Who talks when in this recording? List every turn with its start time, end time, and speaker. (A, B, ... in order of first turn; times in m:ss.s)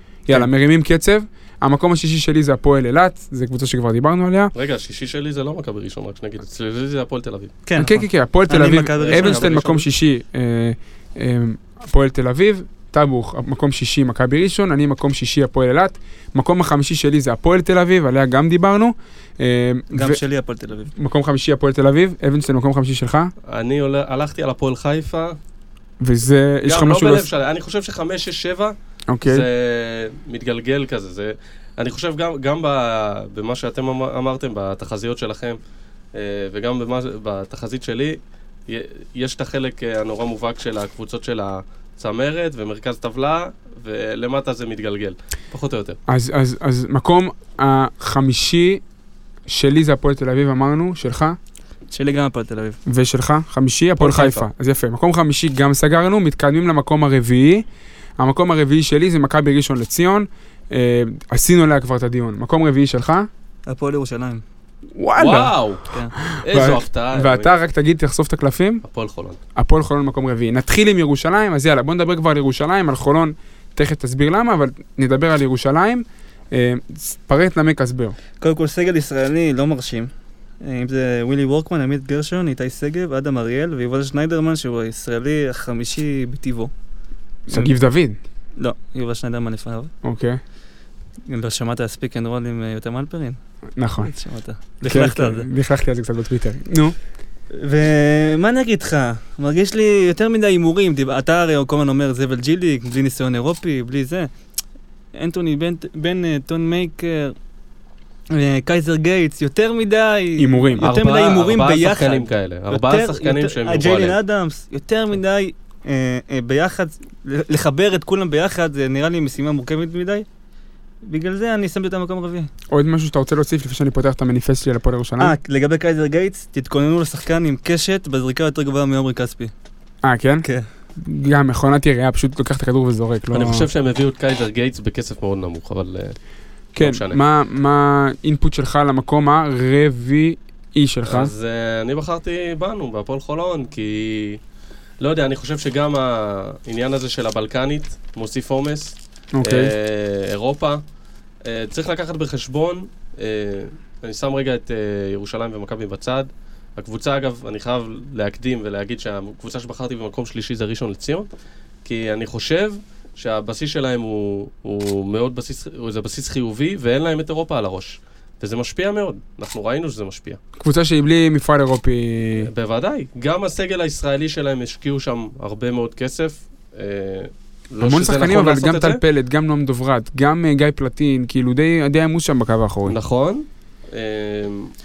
0:00.3-0:04.5 A
0:04.5-0:07.5 B
0:07.7-0:09.8 C
0:07.8-0:20.2 A
0:09.0-0:09.8 B
0:19.9-0:20.9 C
0:21.0-0:23.3 A
0:23.4-0:25.4 B
0:26.0-0:27.3 A
0:26.7-0:35.6 B
0:29.1-0:29.5 A
0:36.1-0:46.0 B
0:46.1-0:48.8 A
0:49.5-0:51.4 A
0:51.9-0:52.8 C
0:52.9-0:57.6 A
0:54.0-0:54.5 B
0:58.2-1:03.3 A
1:03.7-1:04.4 C
1:05.0-1:05.6 A
1:05.2-1:05.9 B
1:06.2-1:08.8 A
1:06.4-1:07.6 B
1:08.8-1:09.4 B
1:09.6-1:18.2 A
1:18.4-1:20.1 C
1:20.6-1:26.7 C
1:27.5-1:28.2 A
1:28.6-1:29.9 C
1:30.0-1:30.4 A
1:31.3-1:33.4 C
1:33.8-1:34.1 A
1:34.0-1:35.5 C
1:34.9-1:37.0 A
1:37.5-1:44.3 C
1:45.1-1:47.4 C
1:48.3-2:00.3 C
1:50.4-1:50.9 A
1:50.8-1:54.2 B
2:01.0-2:02.5 C
2:02.7-2:05.3 A
2:05.2-2:09.5 C
2:10.0-2:13.7 A
2:13.3-2:16.2 B
2:16.8-2:21.3 A
2:16.8-2:17.2 B
2:21.0-2:24.4 B
2:25.0-2:30.8 B
2:29.3-2:29.7 A
2:31.4-2:41.3 B
2:41.8-2:50.4 B
2:50.6-2:52.5 A
2:52.4-2:59.0 B
2:57.8-3:03.0 A
3:02.9-3:04.7 B